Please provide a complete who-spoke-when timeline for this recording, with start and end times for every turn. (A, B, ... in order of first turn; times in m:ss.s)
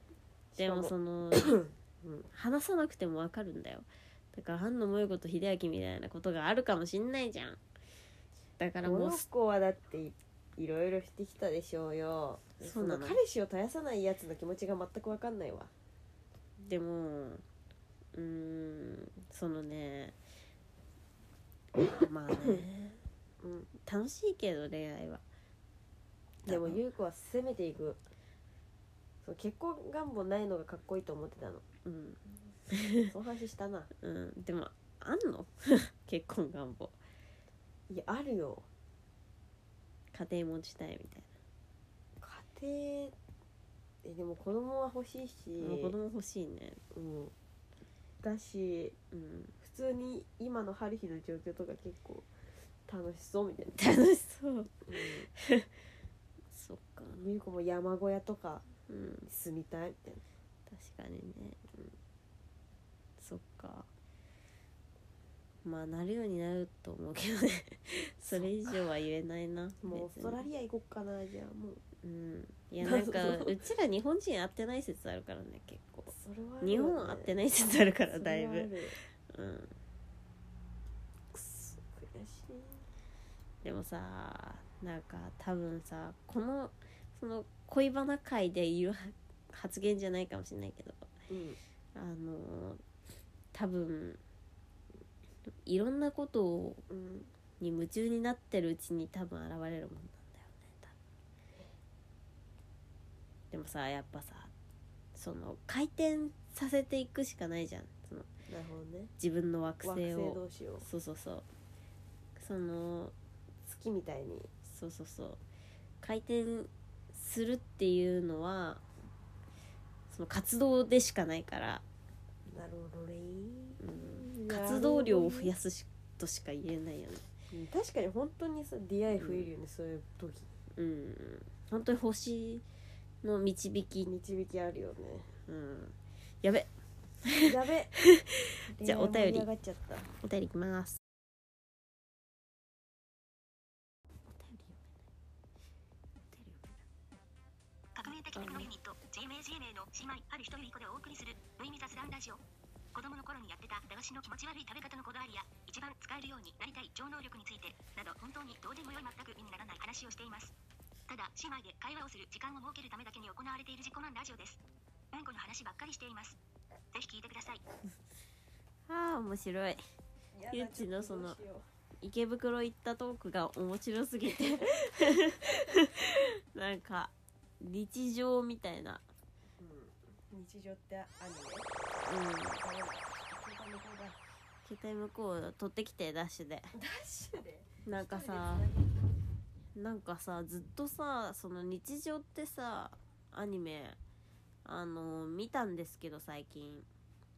0:00.6-0:02.3 A
0:00.6-0:01.5 B
0:02.3-0:07.6 B
0:08.6-0:09.3 B
0:08.8-0:15.7 A
0:12.6-0:13.2 B
0:16.6-0:17.4 B
0:18.1-0:20.2 B
0:21.8-0:23.0 B
0:23.4-0:23.7 A
0:23.8-0:25.2 B
0:26.5-0:26.8 B
0:26.5-0:28.0 A
0:29.2-0:31.6 A
0:31.8-0:32.2 B
0:32.7-0:33.1 B
0:33.0-0:33.9 A
0:34.0-0:37.0 B
0:37.9-0:38.7 A
0:40.1-0:41.3 B
0:42.2-0:43.2 A
0:44.0-0:45.9 A
0:45.6-0:46.8 B
0:46.9-0:47.3 A
0:48.2-0:49.0 A
0:49.1-0:49.5 B
0:49.6-0:52.3 A
0:52.9-0:53.8 A
0:53.8-0:55.7 B
0:54.9-0:55.3 A
0:56.5-0:57.2 B
0:57.1-0:58.6 A
0:58.9-0:59.3 B
0:59.3-1:00.2 A
1:00.7-1:01.6 B
1:03.2-1:03.9 B
1:05.6-1:10.4 B
1:09.8-1:11.8 A
1:12.0-1:18.7 B
1:12.8-1:13.5 A
1:16.1-1:17.4 A
1:18.1-1:19.0 A
1:19.3-1:19.7 B
1:21.3-1:22.8 A
1:23.6-1:31.1 B
1:31.3-1:31.6 A
1:32.0-1:32.8 B
1:33.5-1:34.2 B
1:35.6-1:36.8 B
1:36.9-1:37.3 A
1:37.6-1:41.0 B
1:43.5-1:44.5 B
1:45.2-1:48.3 B
1:48.5-1:49.1 A
1:49.2-1:51.5 B
1:49.8-1:50.9 A
1:52.4-1:53.1 B
1:53.7-1:54.5 A
1:54.7-1:55.4 B
1:56.0-1:58.8 B
2:00.1-2:01.8 B
2:02.5-2:05.5 A
2:03.8-2:07.2 B
2:07.5-2:10.5 A
2:09.2-2:09.5 B
2:10.8-2:12.6 B
2:13.2-2:14.1 B
2:14.1-2:15.3 A
2:15.5-2:16.7 B
2:17.2-2:19.5 B
2:17.4-2:18.0 A
2:18.7-2:20.1 A
2:20.2-2:21.0 B
2:24.4-2:24.9 B
2:26.3-2:26.8 B
2:28.0-2:32.4 C
2:28.4-2:28.7 B
2:32.9-2:40.6 C
2:41.1-2:44.6 C
2:45.1-2:46.4 C
2:46.9-2:47.6 C
2:48.9-2:49.8 B
2:50.4-2:51.6 A
2:50.5-2:51.4 B
2:52.0-2:59.0 B
2:59.6-3:01.7 A
3:02.1-3:02.6 B
3:02.5-3:04.2 A
3:04.6-3:06.7 B
3:06.7-3:09.1 A
3:07.9-3:08.7 B
3:09.8-3:14.0 B
3:14.6-3:16.9 B